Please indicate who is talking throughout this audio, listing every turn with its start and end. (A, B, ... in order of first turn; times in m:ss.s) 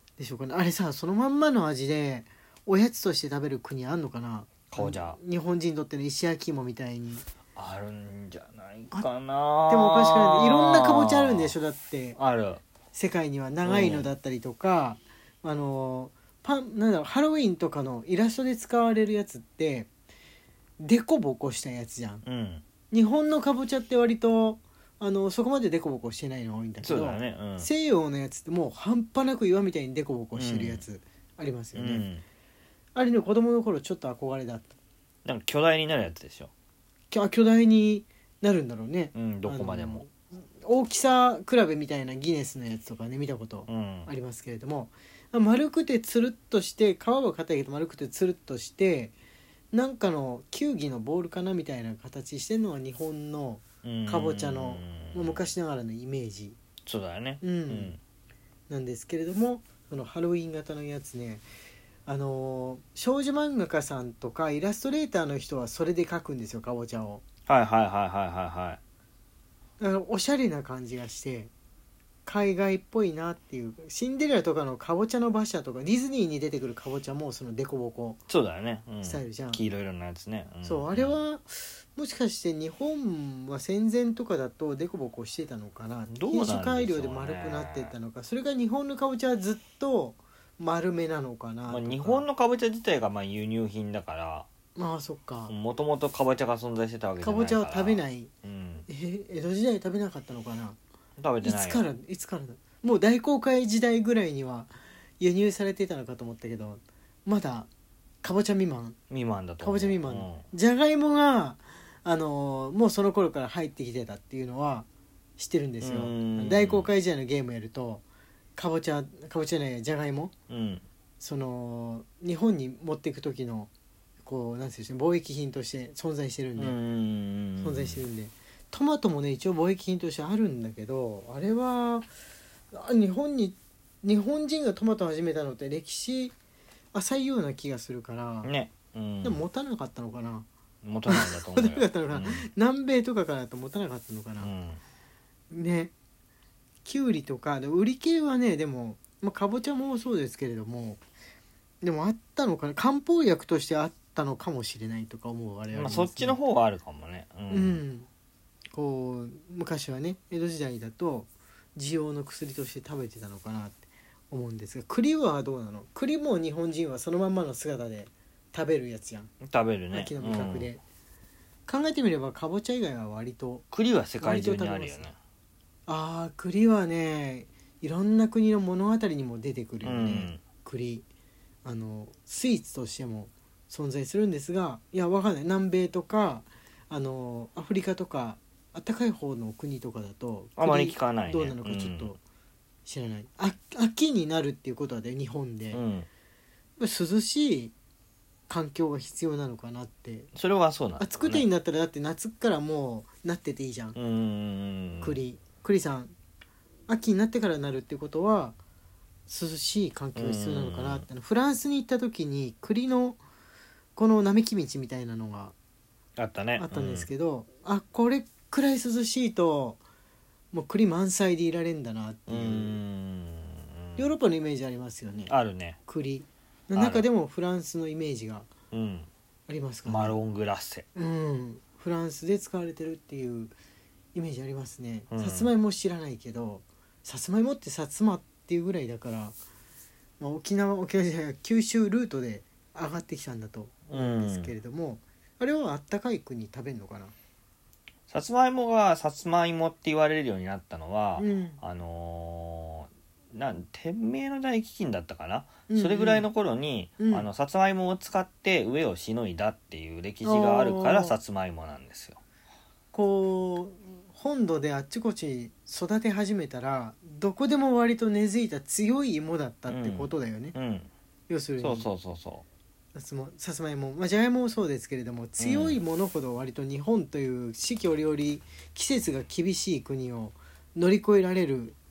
0:00.2-0:07.2 A
0:04.7-0:05.2 B
0:07.6-0:11.5 B
0:09.7-0:12.2 A
0:12.2-0:12.6 B
0:12.9-0:19.9 A
0:13.6-0:14.1 B
0:20.8-0:22.2 A
0:22.2-0:22.6 B
0:22.9-0:32.0 A
0:26.8-0:27.7 B
0:30.3-0:30.8 B
0:31.7-0:32.2 B
0:32.9-0:34.7 A
0:35.2-0:36.5 B
0:37.1-0:49.2 A
0:39.1-0:40.0 B
0:43.7-0:44.1 B
0:49.7-0:56.6 A
0:53.8-0:55.4 B
0:56.8-0:58.0 B
0:57.4-0:57.9 A
0:58.7-1:01.4 A
1:02.0-1:07.2 A
1:07.5-1:08.8 B
1:09.8-1:11.5 A
1:12.2-1:18.2 A
1:18.3-1:21.2 B
1:19.0-1:19.6 A
1:20.6-1:32.2 A
1:26.1-1:27.9 B
1:31.7-1:34.5 B
1:34.8-1:35.5 A
1:35.5-1:38.9 B
1:37.2-1:38.3 A
1:38.9-1:40.8 A
1:41.2-1:41.8 B
1:41.4-1:47.7 A
1:48.2-1:49.0 A
1:49.1-1:50.4 B
1:49.6-1:54.9 A
1:55.4-1:58.0 A
1:55.8-1:56.9 B
1:58.6-2:00.3 A
2:00.5-2:00.8 B
2:01.2-2:03.7 A
2:04.2-2:06.8 A
2:06.6-2:08.0 B
2:07.6-2:12.1 A
2:12.7-2:16.3 A
2:16.9-2:18.5 A
2:18.4-2:19.4 B
2:19.2-2:20.5 A
2:20.8-2:22.5 B
2:21.1-2:24.5 A
2:24.4-2:24.8 B
2:25.5-2:25.9 A
2:26.8-2:31.0 A
2:31.8-2:36.4 A
2:35.7-2:37.8 B
2:37.5-2:38.1 A
2:38.7-2:49.3 A
2:49.4-2:50.7 B
2:49.9-2:50.8 A
2:51.7-2:53.6 A
2:53.7-2:55.1 B
2:54.2-2:55.1 A
2:55.9-3:01.0 A
2:59.8-3:00.4 B
3:01.6-3:12.2 A
3:10.6-3:12.1 B
3:12.8-3:15.8 A
3:15.7-3:16.1 B
3:16.8-3:17.7 A
3:18.5-3:20.3 A
3:20.3-3:21.4 B
3:21.0-3:24.0 A
3:23.9-3:25.2 B
3:25.0-3:26.1 A
3:26.9-3:28.6 A
3:29.3-3:33.2 A
3:30.1-3:31.0 B
3:34.0-3:35.5 A
3:36.2-3:37.1 B
3:36.6-3:39.8 A
3:40.5-3:42.8 A
3:42.3-3:44.1 B
3:44.0-3:45.3 A
3:45.3-3:45.8 B
3:45.8-3:48.5 A
3:46.7-3:47.0 B
3:48.7-3:49.1 B
3:49.5-3:50.1 A
3:49.8-3:50.8 B
3:50.9-3:53.5 A
3:54.1-3:59.4 A
3:55.1-3:55.5 B
4:00.2-4:07.1 A
4:03.9-4:04.5 B
4:08.1-4:22.2 B
4:11.2-4:11.6 A
4:15.7-4:16.3 A
4:17.0-4:17.3 A
4:20.2-4:21.2 A
4:22.9-4:30.5 A
4:29.7-4:30.9 B
4:31.3-4:31.9 A
4:31.6-4:32.4 B
4:32.9-4:41.8 A
4:35.4-4:35.8 B